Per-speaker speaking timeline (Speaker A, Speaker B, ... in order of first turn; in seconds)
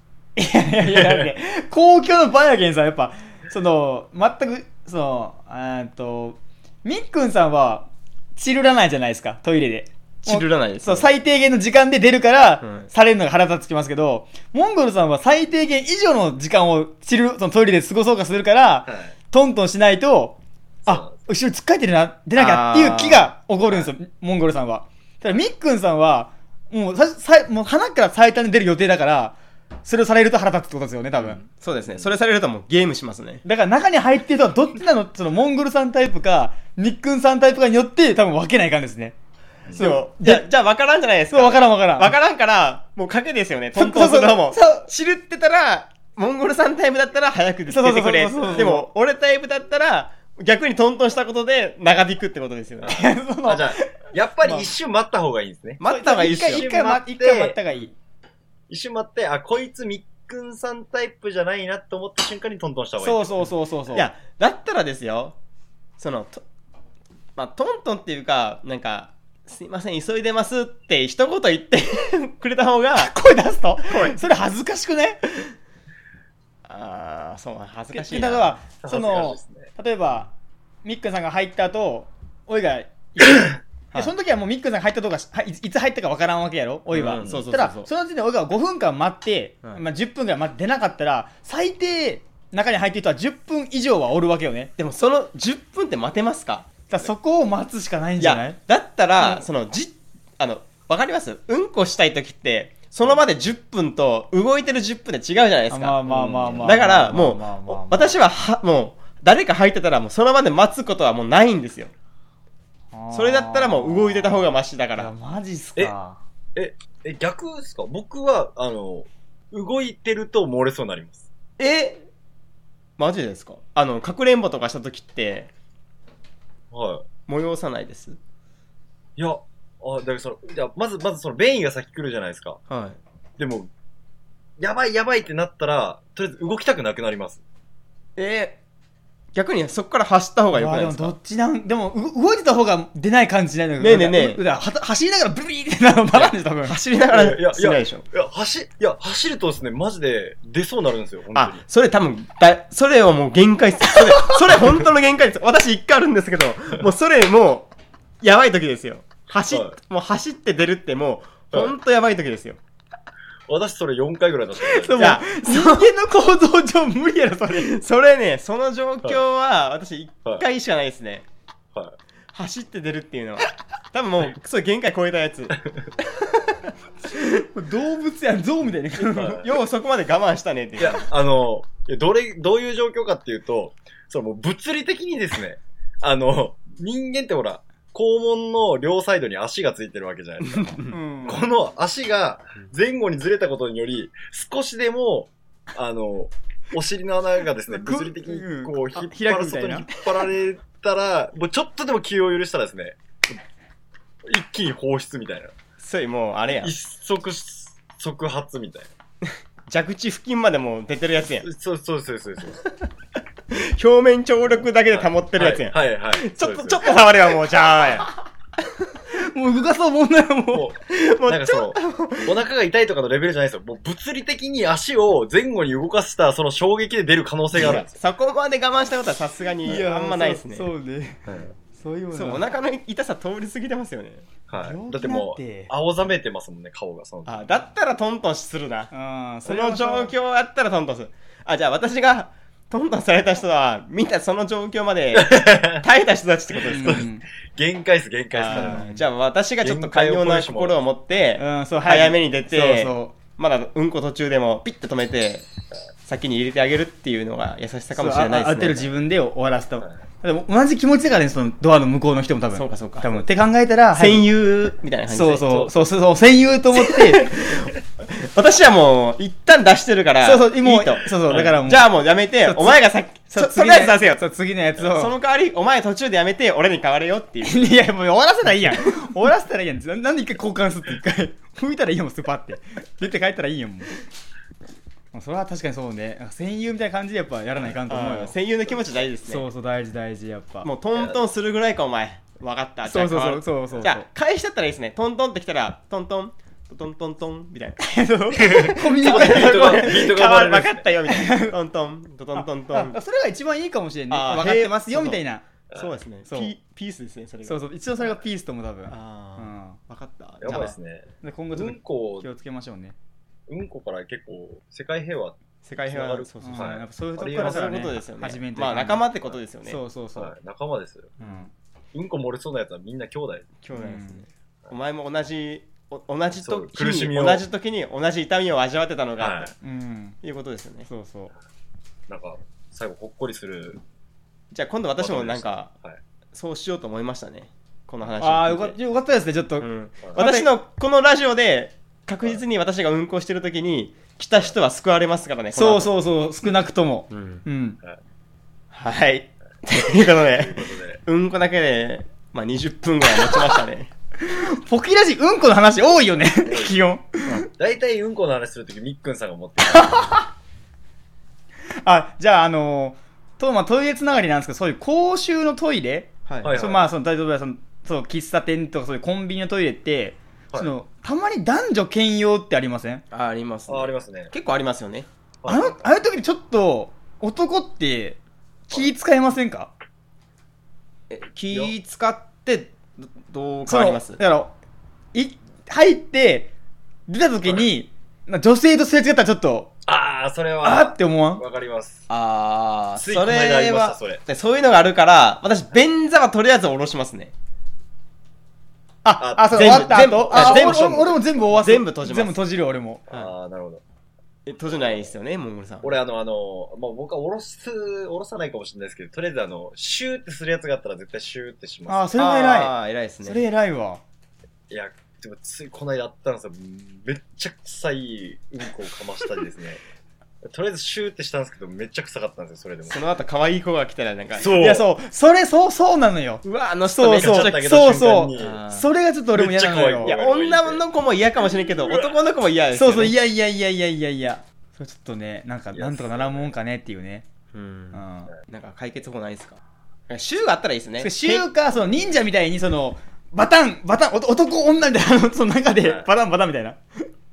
Speaker A: 0.3-31.4, 33.4-39.1, 39.8-40.5, 41.3-42.1, 43.8-44.9, 47.7-48.9, 52.9-54.7, 55.8-57.9, 63.0-64.1, 73.0-75.2, 77.9-80.3, 80.8-94.7, 96.9-98.6, 105.7-108.1, 112.9-114.4, 115.0-116.2, 140.5-146.8, 164.7-167.7, 177.4-179.4, 190.9-191.4, 197.7-200.0, 219.1-220.7, 229.6-232.5, 234.6-235.7, 238.9-240.1, 246.7-247.2, 248.5-249.0, 251.4-253.1, 257.9-264.2, 265.1-267.3, 270.2-271.9, 272.4-275.1, 277.4-283.9, 285.1-288.3, 289.2-290.7, 292.8-294.1, 297.8-300.1, 301.1-301.6, 302.3-305.4, 306.3-306.5, 307.4-309.8, 310.5-312.9, 316.4-319.0, 319.6-320.3, 321.2-321.5, 323.7-324.2, 329.6-330.1, 330.9-331.3, 338.2-340.5, 345.5-347.8, 354.2-357.4, 359.7-360.3, 361.8-373.0, 375.4-379.7, 383.7-384.5, 385.1-386.5, 387.1-389.7, 390.6-391.4, 399.0-403.0, 411.9-414.0, 424.5-430.1, 432.7-437.3, 437.9-438.3, 441.0-447.0
Speaker B: 0.9-1.3, 18.9-19.1, 20.8-21.2, 52.8-57.6, 58.7-63.4, 78.8-79.7, 116.5-121.3, 126.7-127.0, 129.2-132.6, 133.4-133.7, 134.6-137.4, 147.1-151.6, 163.5-165.1, 179.1-179.5, 180.8-203.4, 204.2-205.5, 206.5-208.9, 211.4-212.6, 214.9-217.0, 220.5-227.9, 231.3-231.5, 234.5-237.4, 245.1-245.8, 246.7-248.9, 249.6-250.8, 298.4-300.9, 310.4-312.3, 313.5-317.6, 320.1-321.1, 321.9-323.5, 326.3-327.4, 329.2-329.5, 332.1-333.8, 335.0-336.0, 350.3-351.0, 356.4-356.8, 357.5-360.1, 366.4-366.9, 373.7-374.3, 375.4-375.9, 389.9-392.1, 393.0-394.2, 399.2-401.2, 403.1-403.8, 405.8-412.1, 414.7-419.8, 420.4-423.0, 424.4-424.9, 427.2-428.6, 429.3-430.8, 431.6-432.1, 435.7-436.5
Speaker C: 10.2-11.1, 12.6-12.9, 22.4-23.3, 31.2-33.4, 39.7-53.0, 55.8-56.7, 63.9-65.3, 66.0-66.4, 67.3-73.1, 73.8-74.2, 76.7-78.6, 86.9-87.9, 94.8-96.7, 98.2-111.9, 113.1-115.1, 121.6-122.0, 123.0-125.5, 127.3-128.2, 132.7-133.0, 138.2-138.6, 139.3-141.1, 143.8-144.4, 146.1-148.0, 151.3-157.7, 158.2-162.6, 165.0-165.9, 167.6-171.2, 172.3-175.7, 179.2-181.1, 190.5-190.9, 205.8-206.7, 209.2-211.5, 213.5-218.1, 220.9-222.4, 227.5-230.7, 232.1-234.2, 237.2-238.9, 239.4-247.0, 248.3-255.5, 256.0-258.9, 262.5-263.2, 263.9-265.9, 266.7-277.7, 287.7-289.4, 290.6-297.9, 298.4-303.0, 304.1-307.6, 308.9-310.7, 315.6-316.8, 317.3-319.8, 323.6-329.6, 330.2-330.9, 334.5-335.7, 336.3-338.8, 339.6-346.0, 347.1-347.4, 348.7-353.9, 366.3-366.6, 373.1-375.1, 381.1-384.2, 392.1-397.3, 399.5-402.4, 404.4-406.0, 412.2-413.4, 422.9-424.5, 426.4-427.6, 428.3-428.9, 430.0-433.1, 437.5-441.4